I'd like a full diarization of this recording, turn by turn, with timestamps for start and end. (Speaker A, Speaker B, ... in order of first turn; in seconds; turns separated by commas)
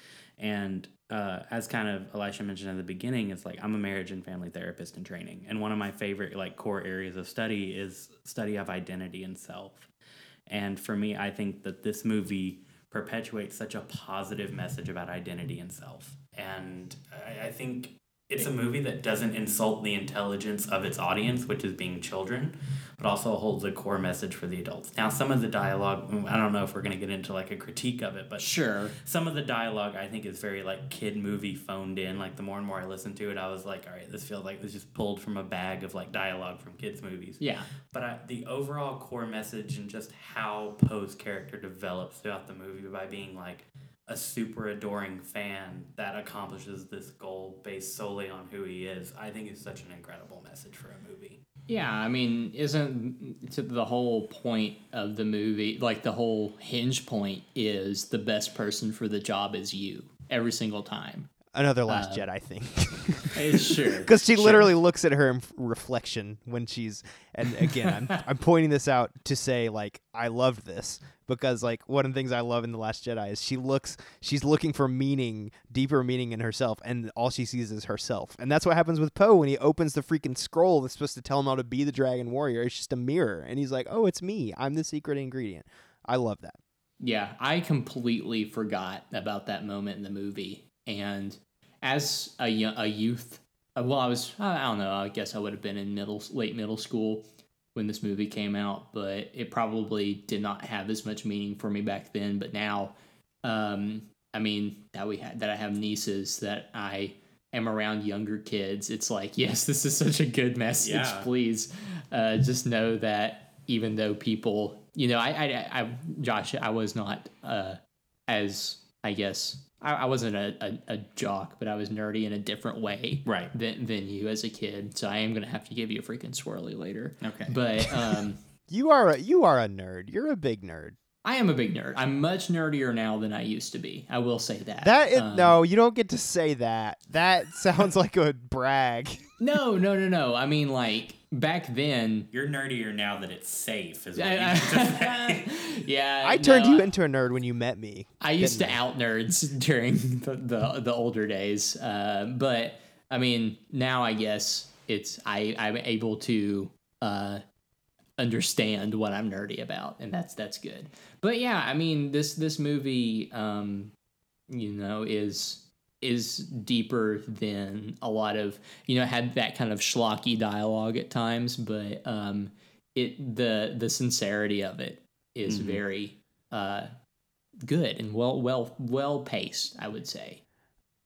Speaker A: 0.4-9.9, Speaker A: 10.5-51.4, Speaker B: 28.4-28.9, Speaker B: 37.4-37.7, Speaker B: 51.7-61.3, Speaker C: 61.5-86.6, Speaker B: 61.9-62.2, Speaker B: 63.3-64.7, Speaker B: 67.7-68.1, Speaker B: 87.0-128.4, Speaker A: 110.8-111.3, Speaker A: 123.2-123.5, Speaker A: 127.2-128.2, Speaker C: 128.7-131.0, Speaker B: 131.2-135.6, Speaker C: 134.8-139.3, Speaker B: 139.4-142.3, Speaker A: 142.3-145.6, Speaker B: 144.2-146.9, Speaker C: 146.2-148.8, Speaker B: 148.2-157.4, Speaker B: 158.2-163.9, Speaker B: 164.5-176.9, Speaker A: 175.5-175.8, Speaker B: 177.6-180.4